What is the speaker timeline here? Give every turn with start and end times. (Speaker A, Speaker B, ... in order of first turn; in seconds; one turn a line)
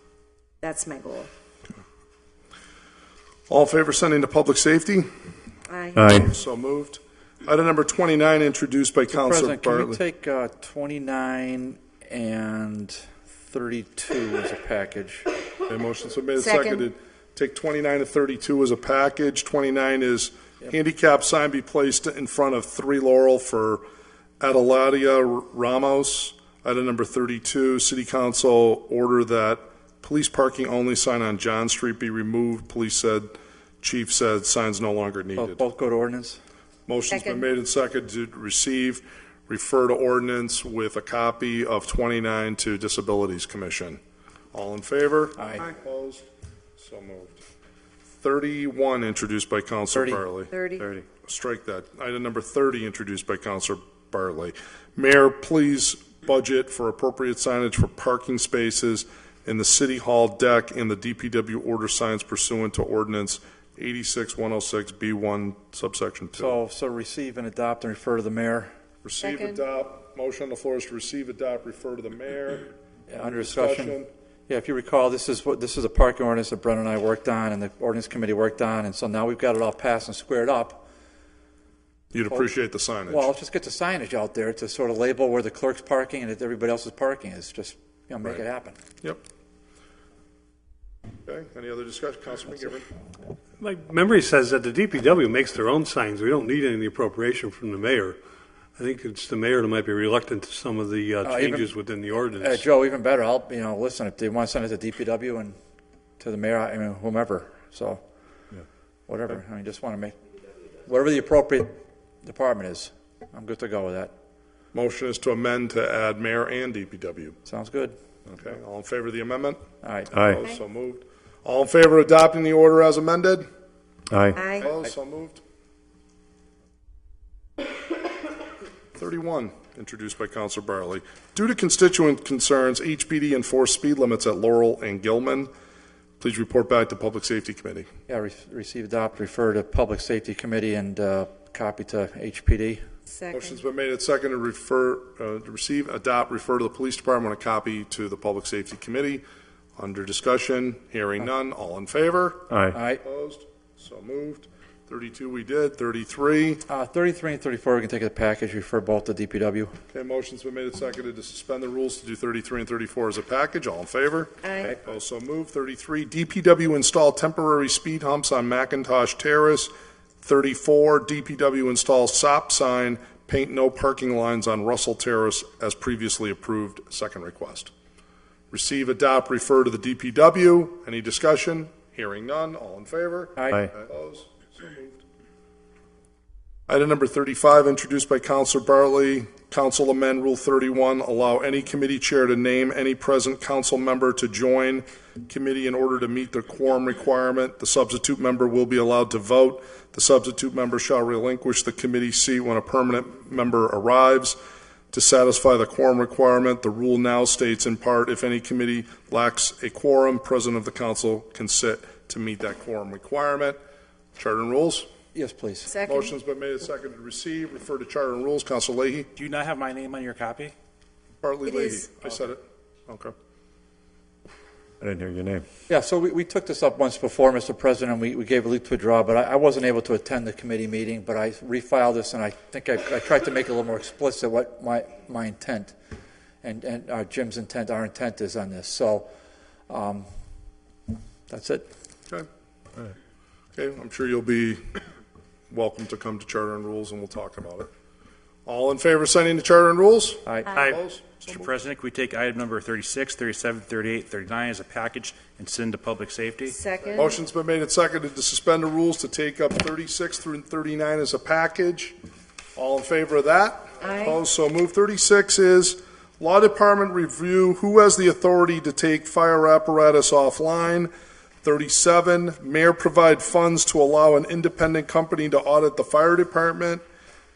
Speaker A: 0.6-1.3
Speaker B: 3.5-5.1
Speaker A: 5.7-6.3
Speaker C: 6.0-6.3
Speaker B: 6.1-10.0
Speaker D: 9.1-15.3
Speaker B: 15.7-23.8
Speaker A: 16.4-16.9
Speaker B: 24.4-35.6
Speaker D: 35.4-36.4
Speaker B: 36.9-44.0
Speaker A: 37.1-37.5
Speaker B: 44.5-46.2
Speaker D: 45.4-45.6
Speaker B: 46.8-47.4
Speaker B: 48.2-50.5
Speaker D: 50.0-50.2
Speaker A: 50.5-50.9
Speaker B: 51.2-66.6
Speaker D: 66.4-68.7
Speaker B: 69.0-74.1
Speaker A: 69.2-69.6
Speaker D: 73.1-80.9
Speaker B: 82.1-83.3
Speaker D: 82.3-82.5
Speaker D: 83.1-88.8
Speaker B: 91.3-92.9
Speaker E: 93.6-98.2
Speaker E: 98.8-102.6
Speaker D: 101.2-101.7
Speaker D: 102.3-105.6
Speaker D: 106.2-108.0
Speaker D: 109.1-110.2
Speaker D: 110.8-111.7
Speaker D: 112.2-114.1
Speaker B: 114.7-117.4
Speaker D: 117.5-118.0
Speaker B: 118.3-119.6
Speaker D: 119.8-120.1
Speaker C: 120.1-120.4
Speaker B: 120.2-123.5
Speaker C: 124.1-124.4
Speaker A: 124.4-124.7
Speaker B: 124.4-125.4
Speaker B: 129.0-135.5
Speaker B: 136.2-137.9
Speaker D: 138.1-142.8
Speaker A: 143.1-143.6
Speaker B: 143.3-149.2
Speaker B: 149.8-156.6
Speaker C: 152.5-152.8
Speaker D: 152.7-153.0
Speaker D: 156.7-159.7
Speaker B: 159.9-169.7
Speaker A: 164.4-164.8
Speaker B: 170.2-177.7
Speaker B: 178.5-185.0
Speaker D: 183.4-183.7
Speaker B: 186.7-204.4
Speaker B: 204.9-213.6
Speaker B: 214.2-214.9
Speaker D: 215.2-215.7
Speaker A: 215.7-216.1
Speaker B: 215.9-219.1
Speaker F: 219.2-220.5
Speaker B: 221.2-223.1
Speaker A: 221.4-221.9
Speaker C: 224.8-225.4
Speaker D: 225.7-235.7
Speaker D: 236.4-239.1
Speaker D: 239.7-240.1
Speaker D: 241.3-241.7
Speaker B: 243.6-244.8
Speaker B: 245.5-247.7
Speaker B: 248.5-251.5
Speaker D: 250.3-250.6
Speaker F: 251.3-256.6
Speaker A: 256.5-257.2
Speaker B: 256.9-262.0
Speaker B: 262.6-270.9
Speaker A: 263.8-264.2
Speaker B: 271.4-276.8